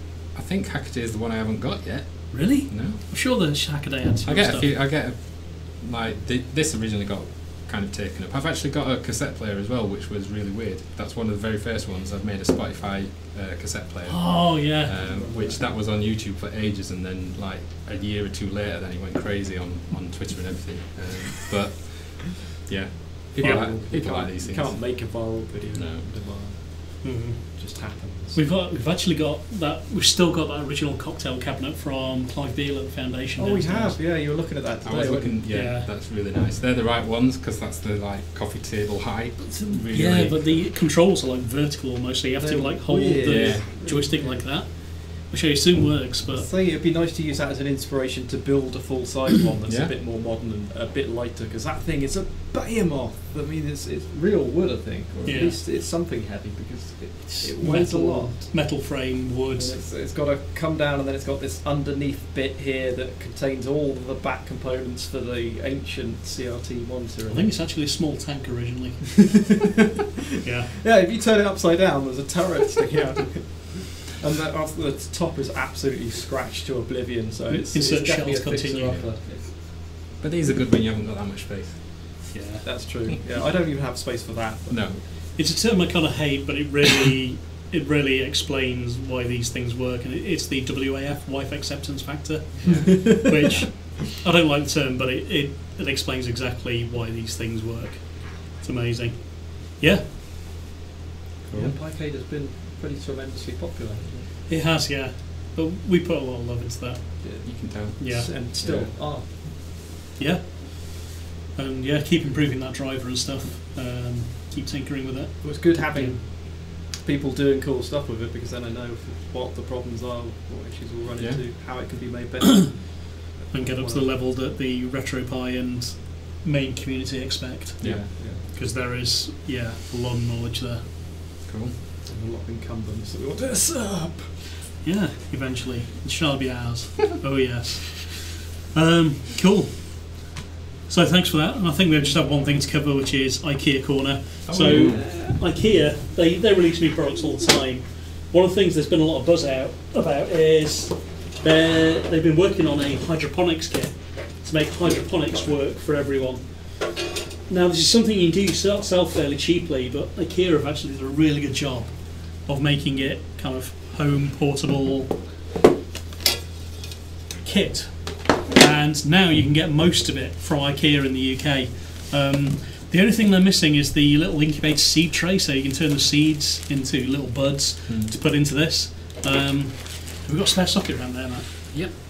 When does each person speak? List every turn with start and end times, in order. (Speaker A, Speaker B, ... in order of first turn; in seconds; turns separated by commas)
Speaker A: 0.3-3.4, Speaker B: 2.3-4.7, Speaker A: 4.2-25.2, Speaker B: 14.1-15.0, Speaker C: 15.0-15.7, Speaker C: 23.4-28.4, Speaker B: 23.4-23.7, Speaker A: 25.7-26.1, Speaker B: 27.0-27.6, Speaker B: 28.3-34.0, Speaker C: 33.4-35.6, Speaker A: 34.8-40.6, Speaker B: 35.5-35.9, Speaker B: 39.8-46.5, Speaker C: 42.4-44.6, Speaker A: 43.3-43.7, Speaker C: 46.3-58.8, Speaker A: 49.7-49.9, Speaker B: 55.2-55.6, Speaker B: 57.4-59.8, Speaker C: 59.5-67.5, Speaker B: 67.3-69.4, Speaker B: 70.4-70.7, Speaker C: 70.7-79.6, Speaker B: 77.6-79.0, Speaker A: 78.8-79.6, Speaker A: 80.2-82.3, Speaker B: 82.3-83.0, Speaker C: 82.6-85.1, Speaker A: 84.7-85.0, Speaker B: 85.3-100.1, Speaker A: 92.6-93.3, Speaker C: 92.6-93.7, Speaker A: 101.5-101.8, Speaker C: 101.5-104.3, Speaker B: 104.5-108.3, Speaker C: 107.2-109.6, Speaker A: 107.4-109.0, Speaker B: 110.2-116.2, Speaker C: 115.4-124.2, Speaker A: 121.2-121.4, Speaker B: 123.5-130.8, Speaker A: 127.8-128.1, Speaker C: 127.8-128.4, Speaker A: 131.4-131.8, Speaker C: 132.0-134.6, Speaker B: 134.8-140.3, Speaker B: 140.9-165.3, Speaker C: 144.4-145.4, Speaker A: 144.6-145.0, Speaker B: 167.3-182.0, Speaker A: 177.8-178.1, Speaker A: 181.7-182.0